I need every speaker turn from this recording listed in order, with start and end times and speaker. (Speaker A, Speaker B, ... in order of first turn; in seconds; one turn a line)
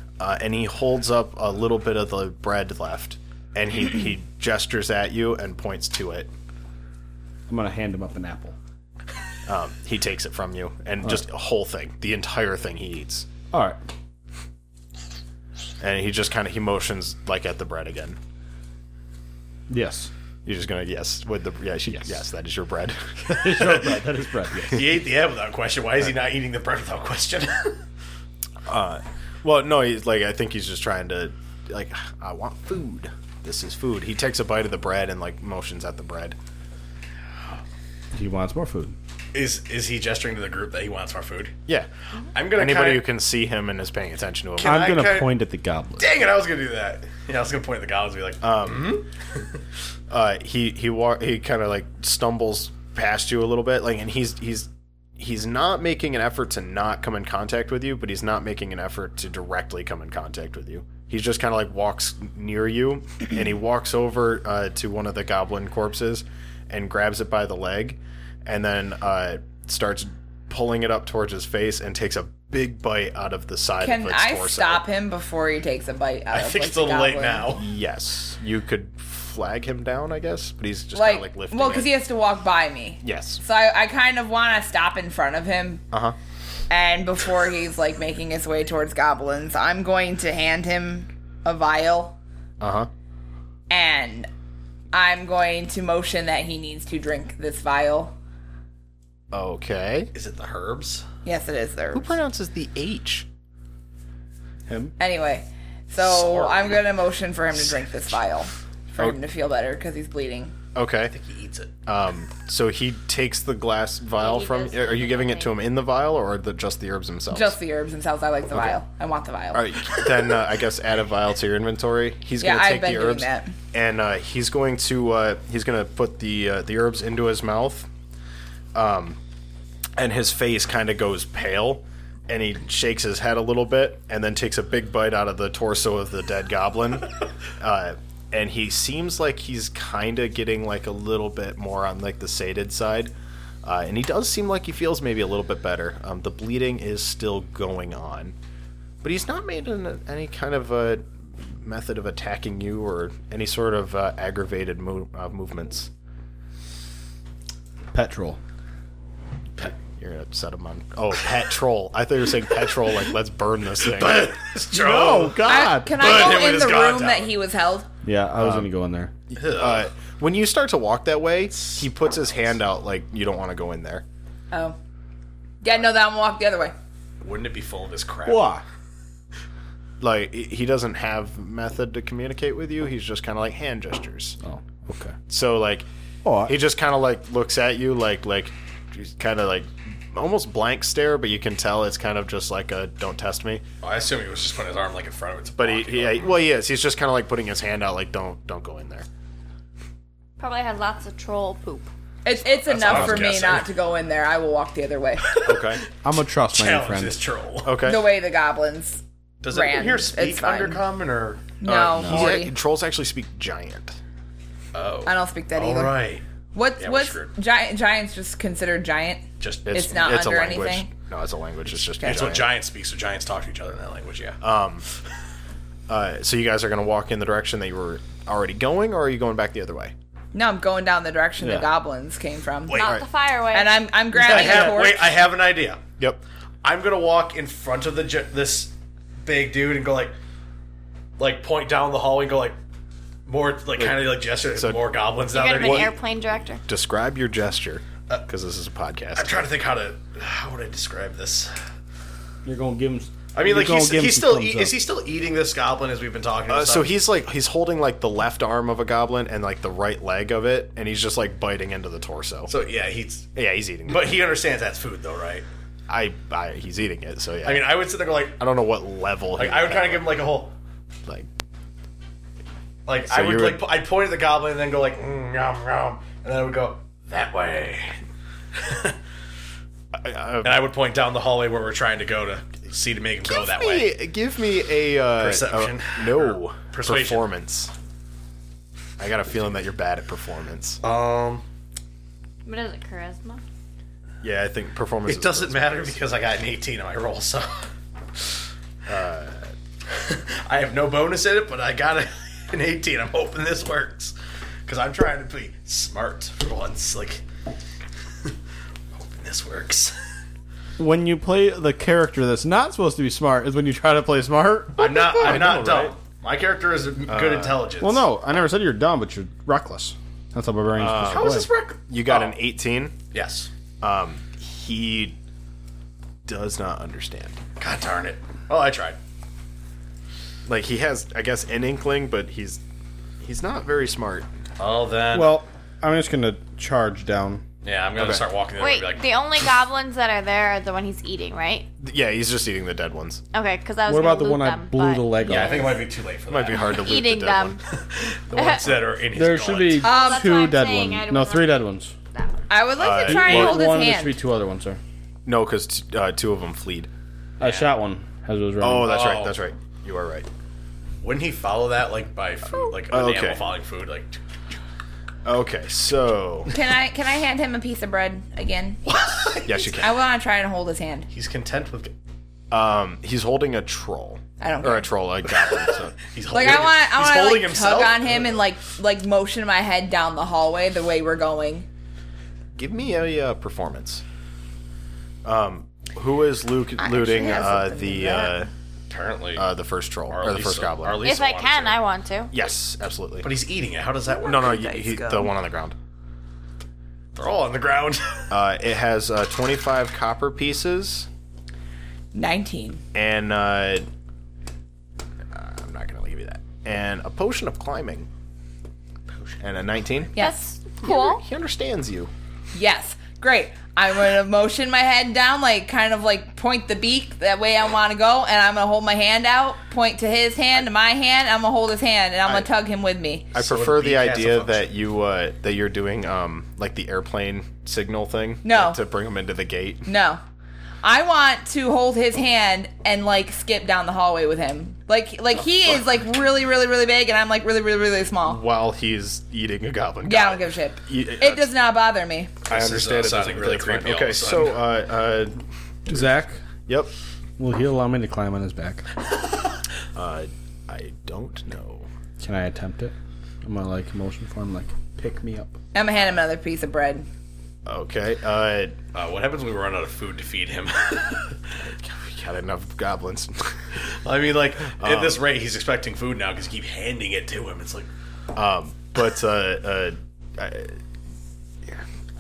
Speaker A: 0.2-6.3
Speaker B: 7.5-8.6
Speaker A: 9.5-13.3
Speaker B: 13.5-13.8
Speaker A: 15.8-18.2
Speaker B: 19.7-20.1
Speaker A: 20.5-23.8
Speaker B: 21.9-22.2
Speaker B: 23.3-24.9
Speaker C: 24.7-27.8
Speaker A: 28.7-36.4
Speaker B: 38.1-39.0
Speaker C: 39.3-41.5
Speaker C: 42.3-43.1
Speaker A: 42.4-45.0
Speaker C: 44.6-45.4
Speaker B: 44.6-46.1
Speaker C: 46.0-49.4
Speaker A: 48.4-49.0
Speaker A: 50.1-74.8
Speaker D: 73.8-77.5
Speaker C: 76.3-77.7
Speaker A: 77.5-81.9
Speaker D: 81.0-85.8
Speaker A: 83.0-83.4
Speaker D: 86.7-92.2
Speaker A: 92.6-92.9
Speaker D: 93.7-94.3
Speaker D: 94.9-98.1
Speaker A: 99.3-100.1
Speaker C: 100.1-101.0
Speaker D: 101.2-102.1
Speaker A: 101.9-103.3
Speaker B: 104.7-105.0
Speaker D: 105.0-110.5
Speaker C: 106.0-106.8
Speaker A: 110.8-111.2
Speaker C: 111.1-111.7
Speaker A: 111.9-117.6
Speaker E: 114.2-115.6
Speaker D: 117.3-119.7
Speaker A: 118.5-118.8
Speaker A: 119.5-127.9
Speaker D: 122.4-123.5
Speaker A: 128.8-129.2
Speaker A: 130.0-143.1
Speaker A: 143.6-148.3
Speaker A: 149.0-155.9
Speaker B: 157.9-158.4
Speaker A: 159.6-164.4
Speaker C: 163.8-167.3
Speaker B: 164.7-166.0
Speaker D: 165.5-167.9
Speaker B: 168.0-169.1
Speaker A: 168.4-168.7
Speaker A: 169.3-174.0
Speaker C: 169.4-169.9
Speaker C: 171.6-171.9
Speaker D: 174.5-174.8
Speaker D: 175.6-176.7
Speaker C: 177.2-178.6
Speaker B: 178.2-178.6
Speaker A: 180.0-184.4
Speaker B: 184.4-185.2
Speaker A: 185.3-185.9
Speaker B: 186.2-186.6
Speaker A: 186.4-193.6
Speaker C: 193.8-196.4
Speaker A: 195.6-199.1
Speaker E: 200.4-201.9
Speaker D: 202.2-205.4
Speaker C: 202.7-203.7
Speaker A: 202.7-203.3
Speaker C: 205.2-205.7
Speaker A: 205.4-205.8
Speaker B: 206.0-207.2
Speaker C: 206.5-207.8
Speaker A: 207.6-208.1
Speaker D: 207.8-210.8
Speaker C: 209.4-211.6
Speaker D: 211.6-212.5
Speaker A: 211.6-214.0
Speaker B: 212.0-212.4
Speaker C: 214.7-216.2
Speaker D: 215.1-216.0
Speaker D: 216.5-220.9
Speaker C: 216.8-217.3
Speaker C: 219.4-219.9
Speaker A: 219.7-222.5
Speaker C: 222.0-224.4
Speaker A: 224.4-224.8
Speaker A: 225.9-229.9
Speaker D: 230.3-232.9
Speaker B: 231.4-231.7
Speaker E: 232.7-233.8
Speaker A: 232.7-233.1
Speaker D: 233.5-235.3
Speaker C: 234.1-235.8
Speaker C: 236.6-238.7
Speaker C: 239.2-240.2
Speaker C: 241.2-242.6
Speaker C: 243.3-245.9
Speaker A: 243.8-244.8
Speaker E: 245.3-246.6
Speaker A: 245.6-245.9
Speaker A: 246.7-249.4
Speaker C: 249.2-251.5
Speaker B: 252.4-254.8
Speaker C: 253.3-257.0
Speaker A: 256.5-262.5
Speaker C: 262.5-263.3
Speaker A: 263.4-264.1
Speaker C: 263.9-265.5
Speaker A: 265.9-267.8
Speaker C: 267.4-268.4
Speaker A: 268.4-270.2
Speaker C: 269.4-270.5
Speaker C: 272.9-278.0
Speaker A: 273.1-273.7
Speaker C: 278.6-279.0
Speaker A: 280.0-280.7
Speaker C: 280.4-283.9
Speaker A: 283.2-287.7
Speaker C: 285.1-287.3
Speaker A: 289.0-290.8
Speaker C: 290.8-291.4
Speaker E: 292.4-293.4
Speaker A: 294.2-296.0
Speaker C: 295.1-297.7
Speaker A: 298.9-299.5
Speaker C: 299.9-304.1
Speaker C: 304.7-307.2
Speaker C: 308.9-310.0
Speaker B: 310.8-315.6
Speaker C: 314.8-318.1
Speaker A: 314.8-315.9
Speaker A: 317.1-317.7
Speaker B: 317.8-321.5
Speaker A: 320.8-323.0
Speaker C: 321.0-322.4
Speaker C: 323.1-323.5
Speaker A: 323.8-325.2
Speaker A: 326.3-327.4
Speaker C: 327.6-329.0
Speaker A: 330.5-332.6
Speaker A: 333.2-334.3
Speaker C: 334.6-335.4
Speaker B: 335.1-337.4
Speaker C: 337.6-339.1
Speaker A: 338.0-338.3
Speaker E: 338.6-341.7
Speaker A: 341.8-343.2
Speaker E: 343.3-345.7
Speaker B: 343.9-345.8
Speaker C: 345.2-346.8
Speaker A: 346.3-347.6
Speaker E: 346.6-347.6
Speaker C: 347.7-349.9
Speaker E: 348.3-348.8
Speaker B: 349.1-351.9
Speaker E: 349.8-351.6
Speaker D: 349.8-350.4
Speaker E: 352.1-352.4
Speaker D: 352.5-354.2
Speaker A: 352.8-353.6
Speaker B: 353.0-354.8
Speaker A: 355.3-356.9
Speaker C: 357.4-357.7
Speaker B: 357.4-359.0
Speaker A: 358.6-360.3
Speaker C: 358.8-359.4
Speaker C: 361.0-364.2
Speaker A: 362.9-363.4
Speaker A: 365.2-366.5
Speaker D: 366.5-368.8
Speaker C: 368.9-369.9
Speaker A: 369.4-370.0
Speaker D: 369.8-371.1
Speaker C: 371.1-371.9
Speaker A: 372.5-376.0
Speaker D: 374.4-374.9
Speaker C: 376.0-378.4
Speaker D: 376.3-381.7
Speaker A: 382.6-384.0
Speaker A: 385.2-388.5
Speaker D: 386.8-388.4
Speaker C: 388.9-389.5
Speaker A: 389.4-391.0
Speaker C: 390.1-391.8
Speaker E: 391.0-392.3
Speaker A: 392.3-393.3
Speaker C: 393.2-394.8
Speaker D: 394.1-395.3
Speaker A: 394.2-395.8
Speaker C: 397.1-398.3
Speaker A: 398.3-401.1
Speaker D: 402.1-402.8
Speaker A: 402.9-403.9
Speaker A: 405.3-408.1
Speaker A: 409.4-410.1
Speaker E: 410.2-411.2
Speaker A: 410.8-412.1
Speaker D: 412.5-423.3
Speaker C: 423.3-424.7
Speaker A: 423.3-429.9
Speaker D: 428.4-428.8
Speaker D: 429.9-430.2
Speaker D: 430.8-438.4
Speaker A: 438.2-441.5
Speaker D: 440.1-442.4
Speaker C: 442.5-444.7
Speaker A: 442.5-445.4
Speaker B: 445.9-446.4
Speaker A: 446.7-446.9
Speaker B: 447.4-448.9
Speaker A: 449.9-451.9
Speaker B: 452.2-455.6
Speaker D: 455.7-457.1
Speaker A: 457.7-458.8
Speaker C: 458.9-461.4
Speaker A: 461.6-463.6
Speaker C: 463.8-467.9
Speaker A: 464.8-465.2
Speaker A: 468.3-470.8